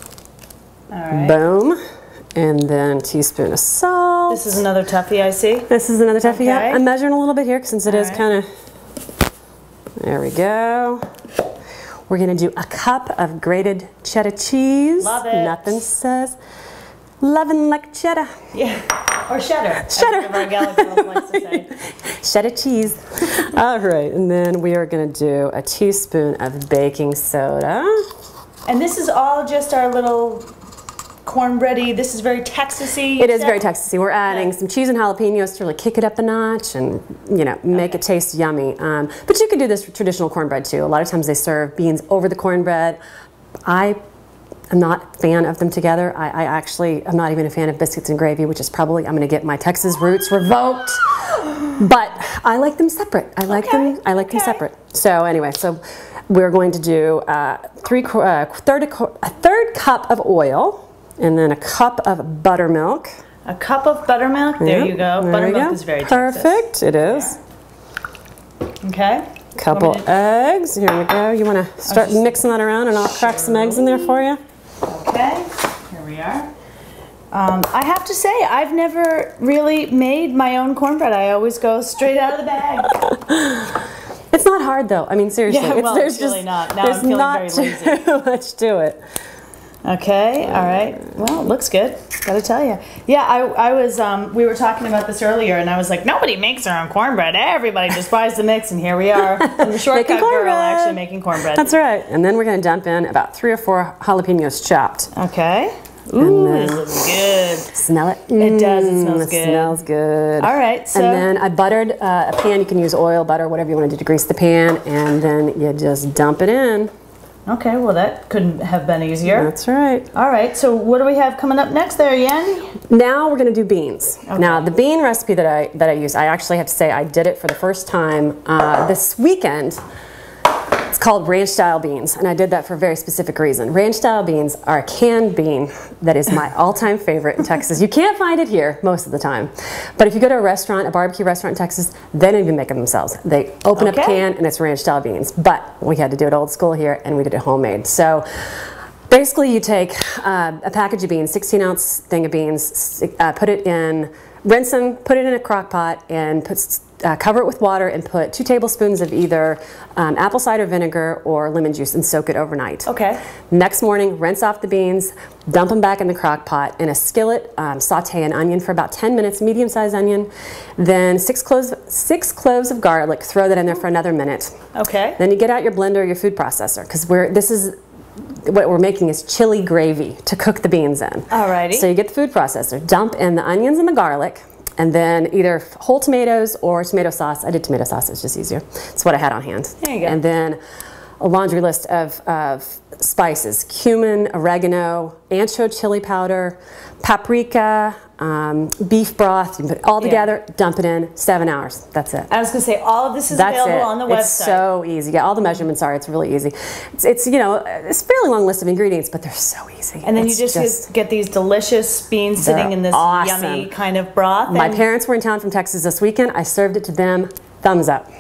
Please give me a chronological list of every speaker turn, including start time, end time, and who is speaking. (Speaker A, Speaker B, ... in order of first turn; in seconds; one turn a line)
Speaker A: 0.9-1.4
Speaker B: 1.1-1.8
Speaker B: 2.4-4.6
Speaker A: 4.3-5.7
Speaker B: 5.7-8.5
Speaker A: 6.2-6.8
Speaker A: 7.9-8.2
Speaker B: 10.0-11.0
Speaker B: 12.1-16.4
Speaker A: 15.0-15.8
Speaker B: 17.2-18.4
Speaker A: 18.5-21.7
Speaker B: 19.9-28.0
Speaker A: 28.7-30.5
Speaker A: 31.2-33.8
Speaker B: 33.2-43.0
Speaker A: 37.8-38.0
Speaker B: 43.7-44.0
Speaker B: 44.7-63.1
Speaker A: 53.5-54.6
Speaker A: 63.5-67.3
Speaker B: 64.6-67.4
Speaker A: 68.8-70.2
Speaker B: 69.6-74.4
Speaker A: 71.9-72.3
Speaker A: 73.0-74.2
Speaker A: 74.8-76.5
Speaker A: 77.3-83.0
Speaker B: 83.0-83.8
Speaker B: 84.3-89.0
Speaker A: 85.5-88.0
Speaker A: 89.8-101.8
Speaker B: 99.4-105.1
Speaker A: 105.1-107.7
Speaker B: 106.2-106.9
Speaker B: 107.7-116.9
Speaker A: 108.4-109.8
Speaker A: 110.4-111.3
Speaker A: 117.5-119.5
Speaker B: 119.3-120.1
Speaker A: 120.1-122.7
Speaker B: 122.8-129.8
Speaker A: 124.3-124.6
Speaker B: 130.9-148.5
Speaker A: 143.8-144.2
Speaker B: 149.1-162.9
Speaker A: 162.9-163.2
Speaker B: 163.5-174.6
Speaker A: 174.8-175.2
Speaker B: 175.2-177.7
Speaker B: 178.5-190.6
Speaker A: 181.3-181.9
Speaker A: 189.8-190.2
Speaker B: 191.2-202.3
Speaker A: 200.0-200.3
Speaker A: 202.3-204.7
Speaker B: 203.3-210.9
Speaker A: 210.0-214.8
Speaker B: 212.4-213.7
Speaker B: 214.5-218.1